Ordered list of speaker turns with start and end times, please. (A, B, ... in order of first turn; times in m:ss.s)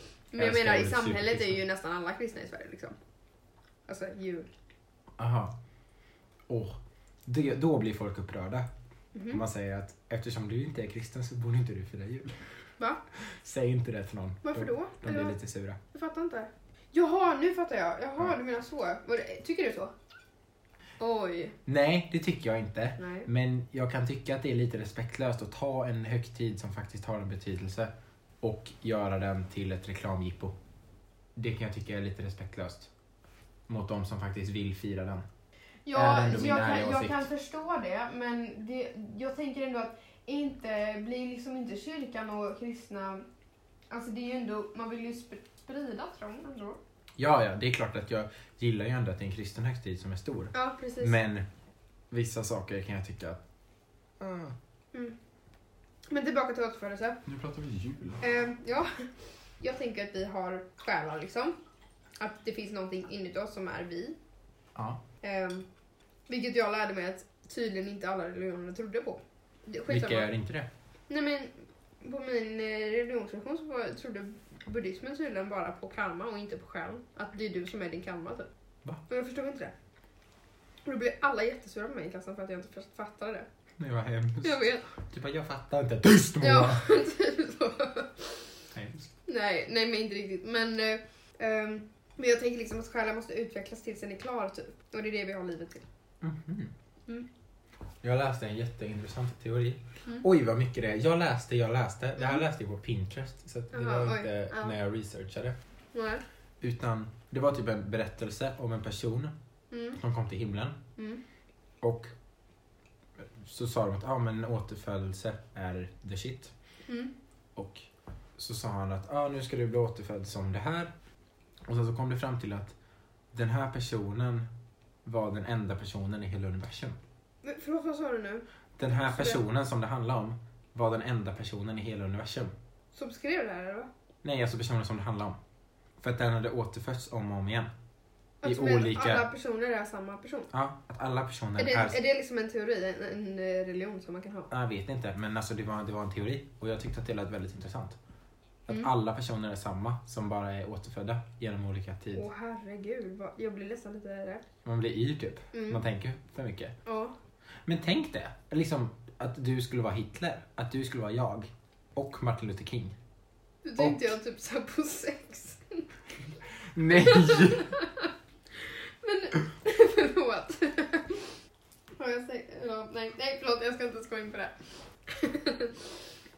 0:00.3-0:03.0 A
0:00.4-0:01.6 B
0:03.9-0:04.5 A
0:05.2-0:05.5 B
0:06.5-0:08.7 B
0:09.1-0:09.4 A
0:09.3-0:12.5 B
0:13.2-0:15.8 B
0:14.4-0:15.4 A
0:15.9-0:19.9 A
0:21.0-0:21.6 A
0:21.7-0:30.5 B
0:23.0-0:23.3 A
0:31.4-0:32.9 B
0:33.7-0:35.2 B
0:35.9-0:43.2 A
0:35.9-0:37.3 B
0:43.9-0:46.8 A
0:47.2-0:51.5 B
0:50.5-0:51.2 A
0:52.1-0:53.4 B
0:54.2-0:54.6 B
0:56.1-0:57.2 A
0:57.3-0:58.2 B
0:58.2-0:59.1 A
0:59.6-1:01.6 A
1:02.2-1:04.2 A
1:04.8-1:05.0 B
1:05.2-1:05.7 A
1:06.3-1:10.3 A
1:09.9-1:10.7 B
1:11.1-1:18.5 A
1:19.1-1:19.7 A
1:20.8-1:23.5 A
1:23.8-1:26.9 B
1:24.4-1:24.9 A
1:26.4-1:28.5 A
1:28.7-1:29.1 B
1:29.3-1:35.8 A
1:36.2-1:36.7 B
1:38.0-1:45.6 B
1:43.7-1:44.8 A
1:45.9-1:46.2 A
1:46.6-1:49.3 B
1:49.7-1:50.0 A
1:50.0-1:50.8 B
1:51.0-1:51.2 A
1:51.8-1:52.1 B
1:53.2-1:56.5 B
1:56.9-1:57.1 A
1:57.6-1:57.9 B
1:58.4-2:00.9 B
2:01.7-2:02.8 B
2:03.3-2:04.5 B
2:05.0-2:07.0 B
2:07.4-2:09.4 A
2:08.8-2:12.5 B
2:12.9-2:13.9 A
2:14.2-2:15.4 B
2:16.0-2:17.7 B
2:18.4-2:20.5 A
2:18.4-2:19.3 B
2:20.5-2:22.0 B
2:21.6-2:24.5 A
2:24.5-2:28.0 B
2:28.7-2:32.3 B
2:32.1-2:34.4 A
2:34.6-2:36.8 B
2:35.5-2:35.8 A
2:36.9-2:37.1 A
2:37.7-2:43.0 B
2:43.6-2:45.9 A
2:43.8-2:44.1 B
2:46.7-2:47.8 B
2:46.9-2:48.1 A
2:48.6-2:51.4 A
2:52.0-2:54.6 A
2:55.1-2:55.8 A